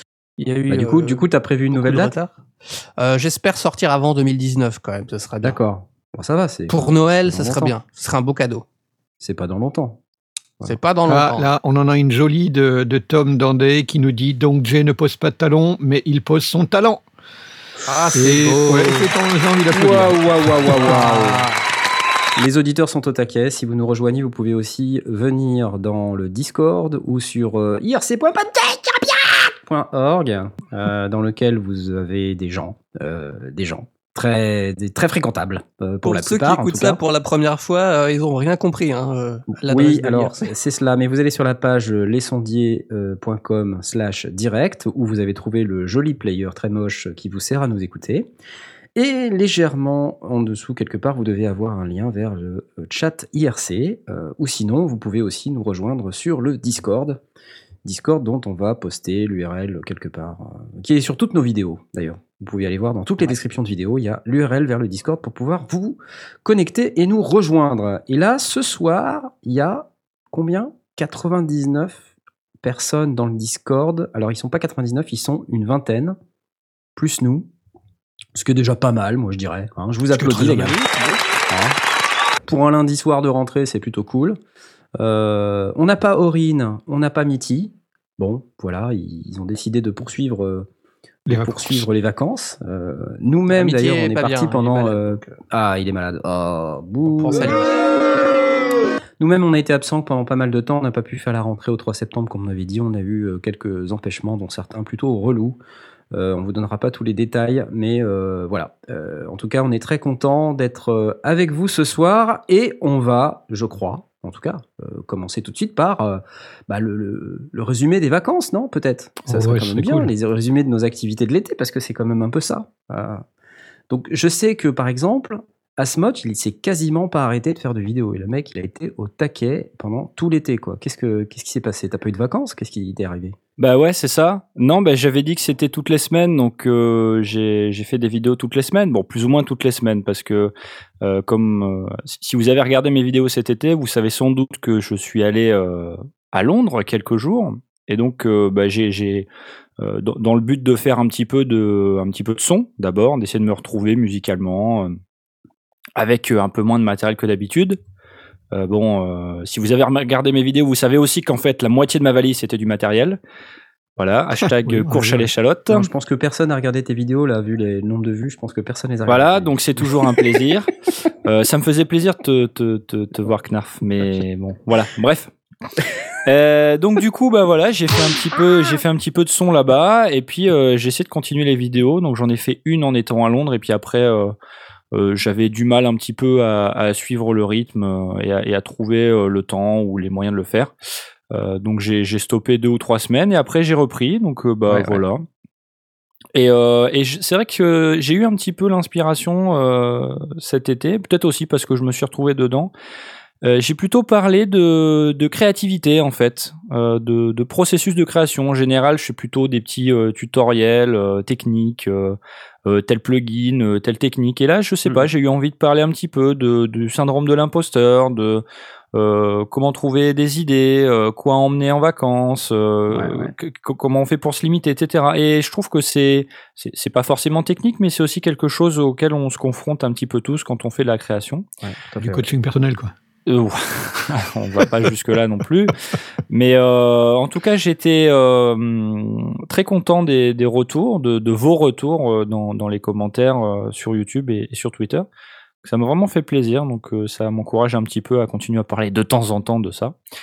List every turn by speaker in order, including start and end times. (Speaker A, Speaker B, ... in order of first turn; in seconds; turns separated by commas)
Speaker A: 0.4-5.6, Speaker B: 0.7-2.1, Speaker B: 5.4-7.7, Speaker A: 6.7-8.6, Speaker B: 9.2-10.0, Speaker A: 10.6-11.5, Speaker C: 11.1-17.0, Speaker A: 17.9-19.1, Speaker C: 18.1-20.8, Speaker B: 19.7-21.5, Speaker A: 20.7-21.6, Speaker B: 22.4-37.0, Speaker A: 36.0-40.5, Speaker B: 39.5-48.3, Speaker B: 49.0-57.2, Speaker B: 57.8-72.0, Speaker B: 72.6-76.2, Speaker B: 77.0-77.5, Speaker B: 78.3-80.8, Speaker C: 80.1-80.8, Speaker B: 81.5-81.8, Speaker B: 82.5-84.4, Speaker B: 85.0-90.7, Speaker C: 91.3-91.9, Speaker B: 91.3-97.7, Speaker A: 93.5-95.4, Speaker A: 97.0-97.7, Speaker B: 99.2-105.6, Speaker B: 106.1-123.2, Speaker C: 119.3-120.1, Speaker B: 123.9-133.3, Speaker D: 133.6-149.3, Speaker D: 149.8-154.9, Speaker D: 155.9-157.8, Speaker D: 158.5-163.2, Speaker D: 164.0-165.9, Speaker C: 164.6-165.3, Speaker B: 165.7-169.5, Speaker D: 169.1-170.7, Speaker D: 171.2-175.3, Speaker D: 176.2-184.3, Speaker D: 184.9-190.7, Speaker D: 191.3-195.2, Speaker B: 194.7-195.0, Speaker D: 196.3-202.7, Speaker D: 203.4-231.4, Speaker B: 222.9-223.3, Speaker B: 231.6-232.3, Speaker C: 232.0-232.9, Speaker D: 233.3-235.7, Speaker D: 236.3-245.1, Speaker D: 245.6-249.9